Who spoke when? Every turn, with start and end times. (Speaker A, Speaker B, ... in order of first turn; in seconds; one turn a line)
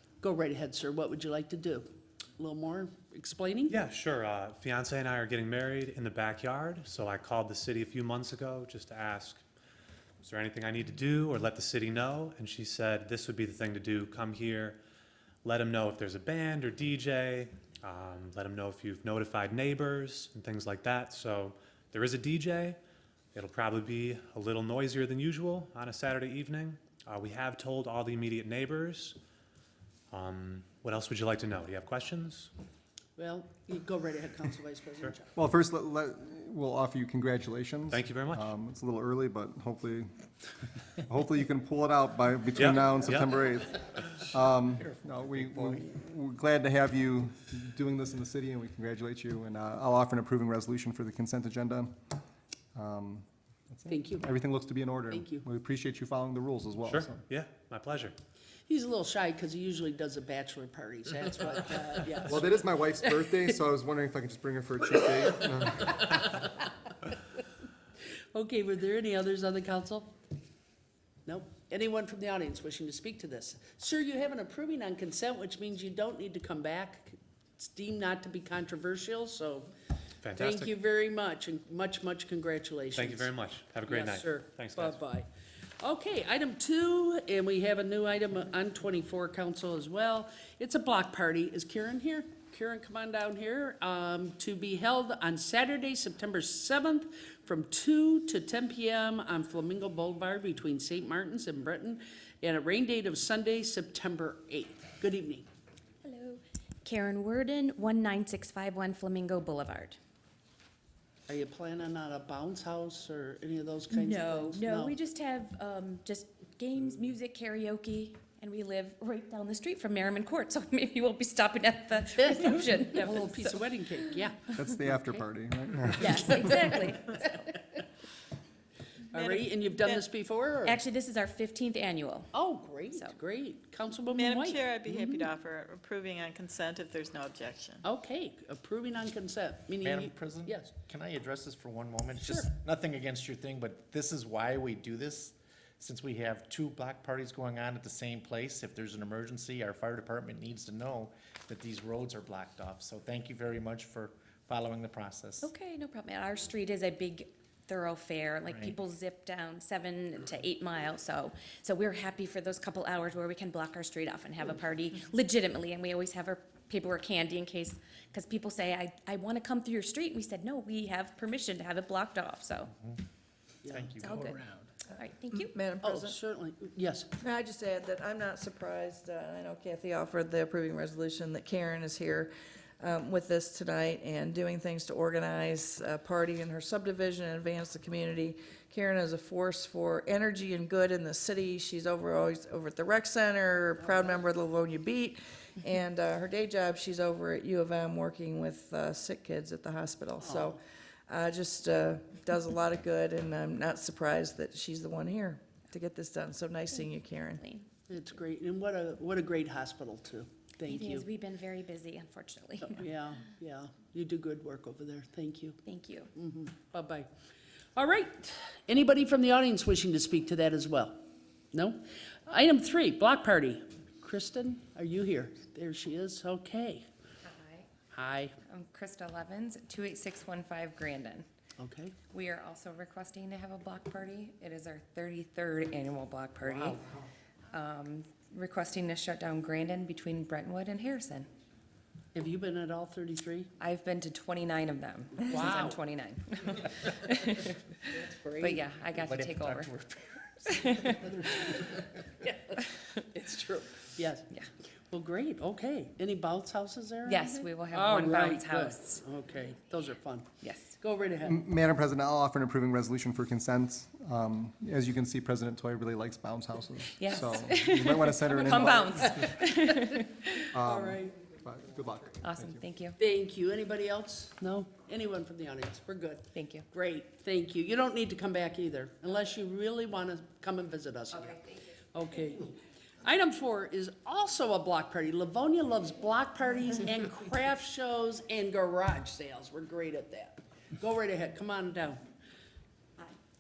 Speaker A: 0.2-3.8
Speaker B: 3.7-9.4
Speaker B: 10.2-14.8
Speaker B: 15.4-22.8
Speaker B: 23.3-29.2
Speaker B: 30.1-32.5
Speaker A: 33.2-35.3
Speaker C: 35.4-40.1
Speaker B: 37.9-38.5
Speaker C: 41.0-52.0
Speaker B: 42.6-43.4
Speaker D: 44.5-45.9
Speaker C: 52.8-57.2
Speaker A: 53.9-54.3
Speaker A: 55.1-55.5
Speaker B: 56.9-58.1
Speaker A: 58.7-62.6
Speaker C: 62.2-66.3
Speaker A: 68.3-70.1
Speaker A: 71.3-79.7
Speaker B: 80.2-80.7
Speaker A: 80.4-83.3
Speaker B: 83.0-85.0
Speaker A: 83.9-85.3
Speaker A: 85.8-105.5
Speaker E: 106.0-110.0
Speaker A: 111.3-115.0
Speaker E: 113.9-124.1
Speaker A: 122.2-124.5
Speaker C: 124.5-126.7
Speaker E: 126.0-127.6
Speaker A: 129.1-130.8
Speaker F: 129.2-130.0
Speaker E: 130.6-132.3
Speaker A: 132.3-135.3
Speaker F: 134.2-137.8
Speaker A: 137.8-140.7
Speaker D: 139.8-155.5
Speaker A: 142.3-142.5
Speaker E: 155.4-172.7
Speaker D: 158.5-158.7
Speaker A: 173.6-174.0
Speaker D: 173.7-174.4
Speaker E: 174.0-174.4
Speaker E: 175.0-175.6
Speaker G: 175.4-176.2
Speaker A: 175.8-177.1
Speaker G: 177.2-207.4
Speaker A: 200.2-200.6
Speaker E: 206.7-207.7
Speaker A: 207.9-211.1
Speaker E: 210.7-212.8
Speaker A: 212.7-215.6
Speaker E: 215.7-216.1
Speaker A: 216.2-217.1
Speaker A: 217.8-221.0
Speaker A: 221.5-226.9
Speaker H: 227.3-227.7
Speaker A: 227.9-228.3
Speaker H: 228.4-231.3
Speaker A: 231.6-231.9
Speaker H: 232.1-236.8
Speaker A: 236.4-237.0
Speaker H: 237.5-241.3
Speaker A: 242.1-243.5
Speaker H: 243.6-247.6
Speaker A: 245.2-245.8
Speaker A: 247.9-248.6
Speaker H: 248.4-249.8
Speaker D: 249.1-250.0
Speaker H: 250.5-251.0
Speaker A: 251.2-251.7
Speaker A: 252.2-254.3
Speaker A: 254.9-261.4
Speaker H: 257.1-259.0
Speaker H: 260.4-260.8
Speaker C: 261.2-269.4
Speaker H: 267.0-270.5
Speaker C: 270.5-272.6
Speaker A: 270.6-271.2
Speaker H: 272.2-273.0
Speaker A: 273.0-292.0
Speaker H: 276.3-276.7